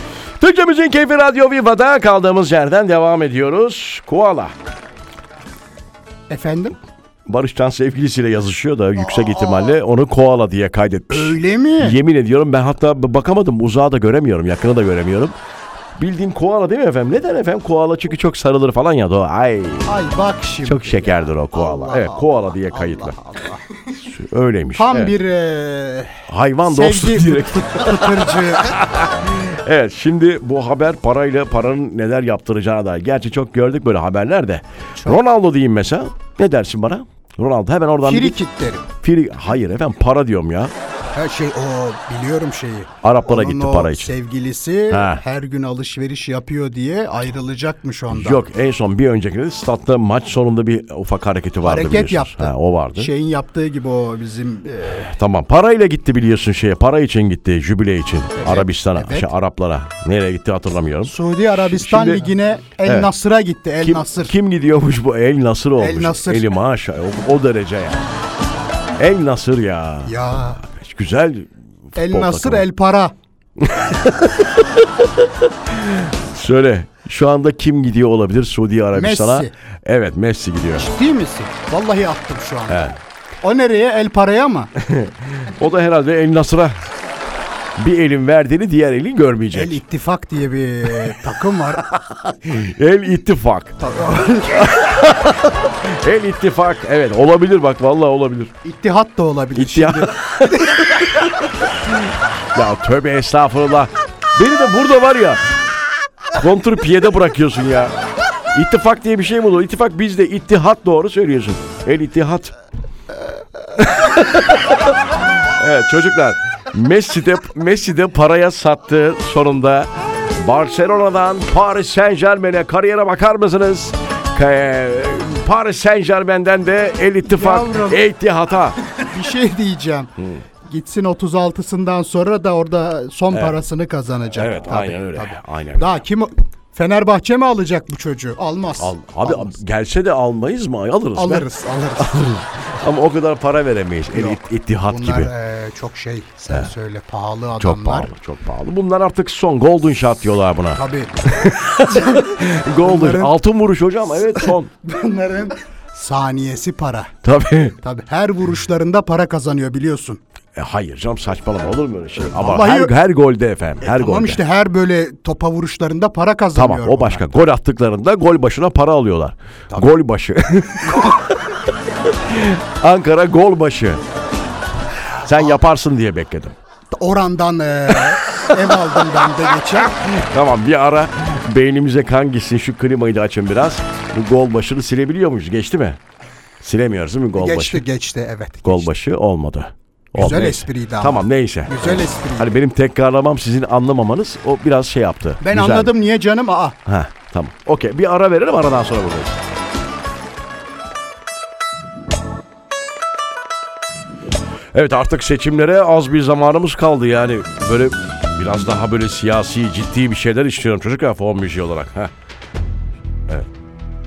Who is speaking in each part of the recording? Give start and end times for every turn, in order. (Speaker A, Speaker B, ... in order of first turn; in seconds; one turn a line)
Speaker A: 0.4-4.5
Speaker B: 6.3-6.8
Speaker A: 7.3-15.3
Speaker B: 9.2-9.7
Speaker B: 11.1-12.0
Speaker A: 16.0-19.9
Speaker B: 19.8-23.7
Speaker A: 20.6-23.1
Speaker A: 24.0-25.1
Speaker B: 24.7-28.8
Speaker A: 26.3-38.4
Speaker B: 38.0-38.9
Speaker A: 39.0-40.7
Speaker B: 41.1-48.4
Speaker A: 43.0-44.1
Speaker A: 44.9-45.2
Speaker A: 48.1-53.1
Speaker B: 51.6-55.1
Speaker A: 54.9-62.3
Speaker B: 58.4-59.3
Speaker B: 61.0-64.3
Speaker A: 62.8-63.1
Speaker A: 63.8-68.0
Speaker B: 65.8-66.5
Speaker A: 69.0-70.1
Speaker B: 70.0-70.6
Speaker A: 70.6-72.6
Speaker B: 72.0-73.1
Speaker A: 73.6-80.9
Speaker B: 78.9-79.5
Speaker B: 80.8-82.9
Speaker A: 82.7-83.0
Speaker B: 83.4-84.7
Speaker A: 84.8-86.8
Speaker A: 87.8-89.8
Speaker B: 89.5-91.9
Speaker A: 91.8-93.8
Speaker B: 93.8-95.1
Speaker A: 94.5-98.5
Speaker B: 98.6-101.0
Speaker A: 99.5-105.4
Speaker A: 106.3-107.9
Speaker A: 108.5-112.5
Speaker A: 113.8-128.8
Speaker B: 127.3-128.0
Speaker B: 129.0-130.1
Speaker A: 130.2-130.4
Speaker B: 130.6-139.6
Speaker A: 133.3-133.6
Speaker A: 134.3-135.9
Speaker A: 138.8-145.3
Speaker B: 141.2-142.3
Speaker B: 144.1-148.1
Speaker A: 147.6-154.7
Speaker B: 150.7-153.3
Speaker B: 154.2-157.1
Speaker A: 157.2-157.8
Speaker B: 157.8-160.2
Speaker A: 160.5-164.4
Speaker B: 162.2-162.9
Speaker B: 163.8-167.3
Speaker A: 166.5-174.0
Speaker B: 170.8-171.2
Speaker A: 175.2-176.6
Speaker B: 176.9-180.0
Speaker A: 177.9-186.0
Speaker A: 186.6-187.8
Speaker B: 187.3-188.9
Speaker A: 188.6-195.9
Speaker B: 190.1-192.5
Speaker B: 195.4-196.8
Speaker A: 196.8-199.4
Speaker A: 204.7-212.1